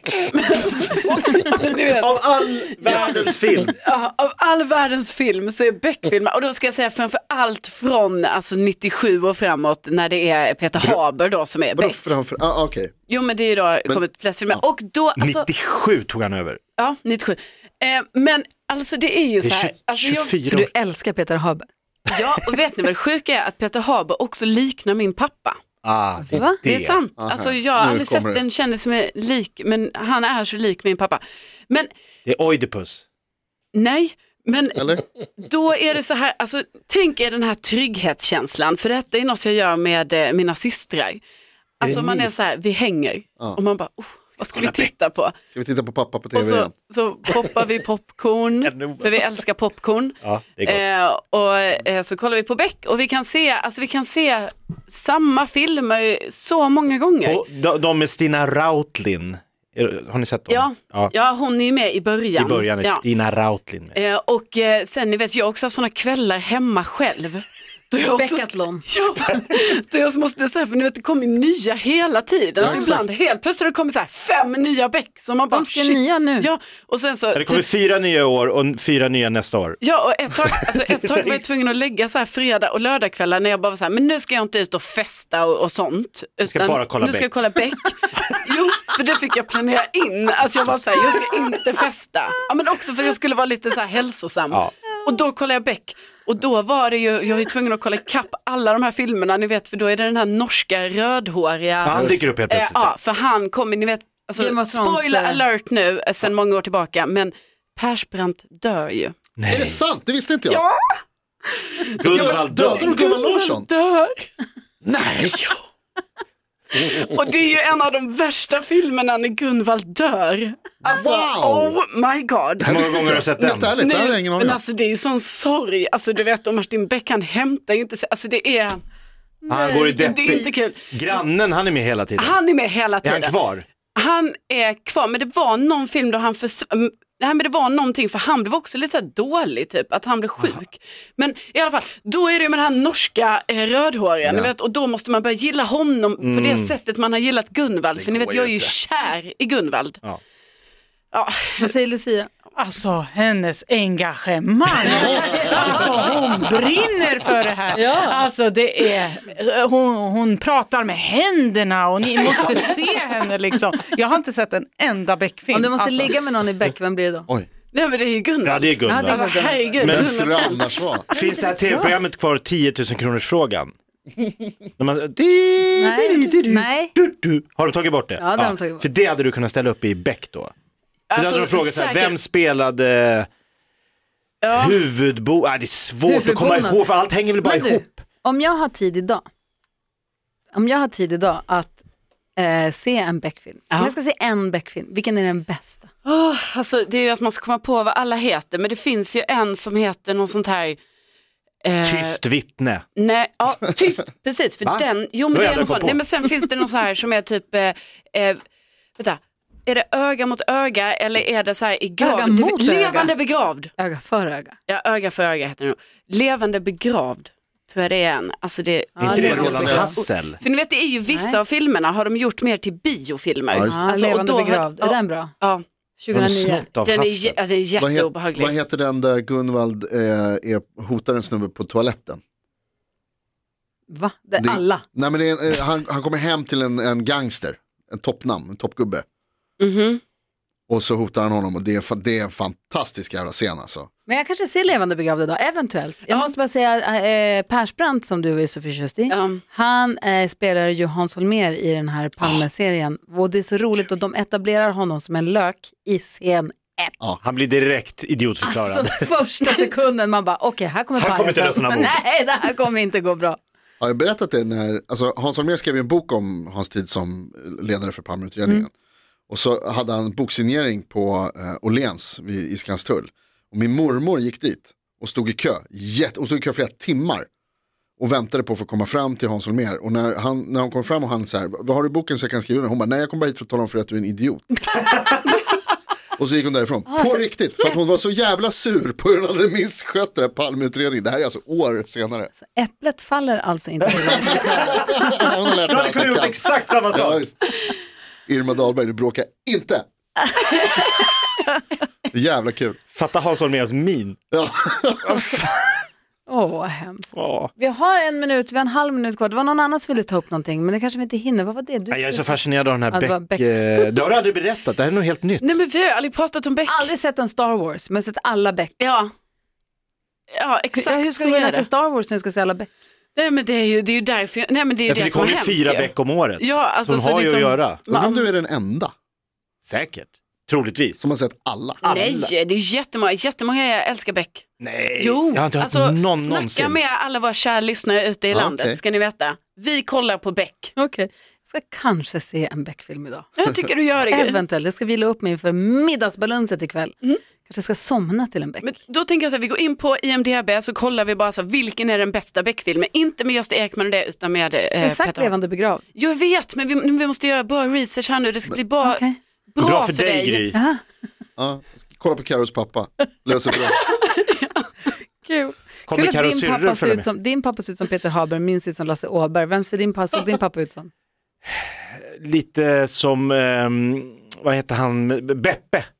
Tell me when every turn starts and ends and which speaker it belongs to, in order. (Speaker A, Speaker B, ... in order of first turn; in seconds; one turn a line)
Speaker A: 0.3-3.3
Speaker B: 1.9-3.7
Speaker A: 3.9-12.0
Speaker C: 11.8-12.9
Speaker A: 13.1-15.5
Speaker B: 15.2-16.6
Speaker A: 16.8-20.3
Speaker B: 19.4-20.7
Speaker D: 20.5-21.7
Speaker A: 22.1-25.6
Speaker B: 25.8-27.0
Speaker D: 26.2-26.6
Speaker A: 26.6-31.9
Speaker C: 27.2-28.4
Speaker B: 32.2-33.0
Speaker A: 33.7-41.2
Speaker A: 41.8-45.3
Speaker C: 41.8-42.3
Speaker B: 44.5-44.9
Speaker C: 45.5-46.7
Speaker A: 46.3-57.4
Speaker B: 48.6-49.1
Speaker B: 50.2-50.9
Speaker B: 57.2-61.1
Speaker A: 60.5-63.0
Speaker B: 62.4-64.0
Speaker A: 63.9-77.6
Speaker D: 68.1-68.8
Speaker C: 72.6-73.0
Speaker D: 72.6-73.0
Speaker D: 75.5-76.5
Speaker B: 77.3-79.8
Speaker A: 79.8-109.1
Speaker B: 80.9-81.4
Speaker B: 86.5-87.5
Speaker B: 101.8-102.9
Speaker C: 101.9-102.2
Speaker D: 104.4-105.4
Speaker B: 109.4-109.8
Speaker C: 109.5-110.6
Speaker A: 110.5-110.8
Speaker A: 111.5-114.3
Speaker B: 112.0-113.0
Speaker C: 112.0-113.7
Speaker C: 114.8-115.5
Speaker A: 115.3-115.6
Speaker A: 116.7-122.8
Speaker C: 120.8-121.8
Speaker B: 122.6-123.7
Speaker C: 122.6-124.6
Speaker A: 123.4-128.8
Speaker D: 129.4-130.5
Speaker B: 129.5-132.4
Speaker A: 129.9-131.1
Speaker A: 132.2-133.4
Speaker B: 133.0-133.6
Speaker A: 133.9-150.0
Speaker C: 144.2-144.5
Speaker B: 146.2-146.7
Speaker C: 147.9-148.7
Speaker A: 151.1-151.7
Speaker D: 151.6-152.3
Speaker E: 152.6-166.1
Speaker D: 157.7-158.2
Speaker A: 162.2-162.5
Speaker D: 165.5-167.3
Speaker A: 167.7-171.4
Speaker B: 168.4-169.3
Speaker D: 168.9-169.8
Speaker B: 169.8-170.2
Speaker C: 169.8-171.0
Speaker B: 171.1-173.7
Speaker D: 171.2-171.9
Speaker B: 174.8-180.5
Speaker D: 175.8-176.9
Speaker D: 178.2-178.8
Speaker A: 181.1-182.2
Speaker B: 181.1-183.3
Speaker A: 184.4-184.8
Speaker B: 184.5-188.0
Speaker D: 186.1-189.2
Speaker D: 190.5-191.8
Speaker D: 192.3-195.9
Speaker A: 196.0-200.8
Speaker A: 201.6-202.2
Speaker B: 201.8-202.8
Speaker A: 202.9-208.4
Speaker B: 204.6-206.1
Speaker A: 209.0-213.7
Speaker D: 212.0-213.1
Speaker D: 213.8-214.6
Speaker A: 214.7-225.6
Speaker D: 219.0-220.0
Speaker B: 219.0-220.4
Speaker C: 219.1-219.8
Speaker D: 221.1-221.4
Speaker C: 223.5-223.8
Speaker D: 223.7-225.3
Speaker D: 226.0-226.7
Speaker B: 226.1-227.3
Speaker A: 226.8-228.5
Speaker C: 227.8-232.2
Speaker D: 233.9-234.8
Speaker C: 234.4-239.0
Speaker A: 239.6-240.0
Speaker C: 240.7-243.9
Speaker D: 244.1-256.9
Speaker A: 249.1-249.4
Speaker B: 257.2-259.1
Speaker D: 258.4-263.4
Speaker B: 261.0-262.0
Speaker C: 263.8-268.7
Speaker C: 269.3-277.3
Speaker C: 278.0-284.6
Speaker C: 286.2-292.3
Speaker D: 286.9-287.8
Speaker D: 292.4-295.0
Speaker C: 294.0-297.4
Speaker B: 294.4-294.9
Speaker B: 295.6-297.2
Speaker C: 298.3-299.9
Speaker C: 302.1-302.8
Speaker B: 302.9-304.2
Speaker C: 304.3-305.2
Speaker B: 305.0-305.5
Speaker D: 306.3-313.4
Speaker B: 307.1-307.5
Speaker B: 311.9-315.5
Speaker A: 315.4-316.9
Speaker D: 316.6-318.7
Speaker A: 318.8-319.1
Speaker A: 320.4-321.7
Speaker D: 320.7-322.7
Speaker A: 323.1-328.3
Speaker B: 324.9-327.8
Speaker C: 327.9-328.9
Speaker B: 329.6-331.0
Speaker C: 331.0-331.8
Speaker B: 331.8-332.3
Speaker A: 331.8-334.4
Speaker B: 334.6-336.8
Speaker A: 335.0-340.7
Speaker C: 338.3-338.8
Speaker D: 340.8-343.3
Speaker A: 343.4-344.4
Speaker D: 344.1-348.7
Speaker A: 348.6-355.3
Speaker D: 354.8-355.8
Speaker A: 355.9-360.5
Speaker D: 358.8-359.2
Speaker B: 359.6-360.6
Speaker D: 360.5-360.8
Speaker C: 361.4-363.8
Speaker A: 363.8-364.7
Speaker D: 365.2-370.9
Speaker B: 365.9-367.1
Speaker B: 371.6-375.9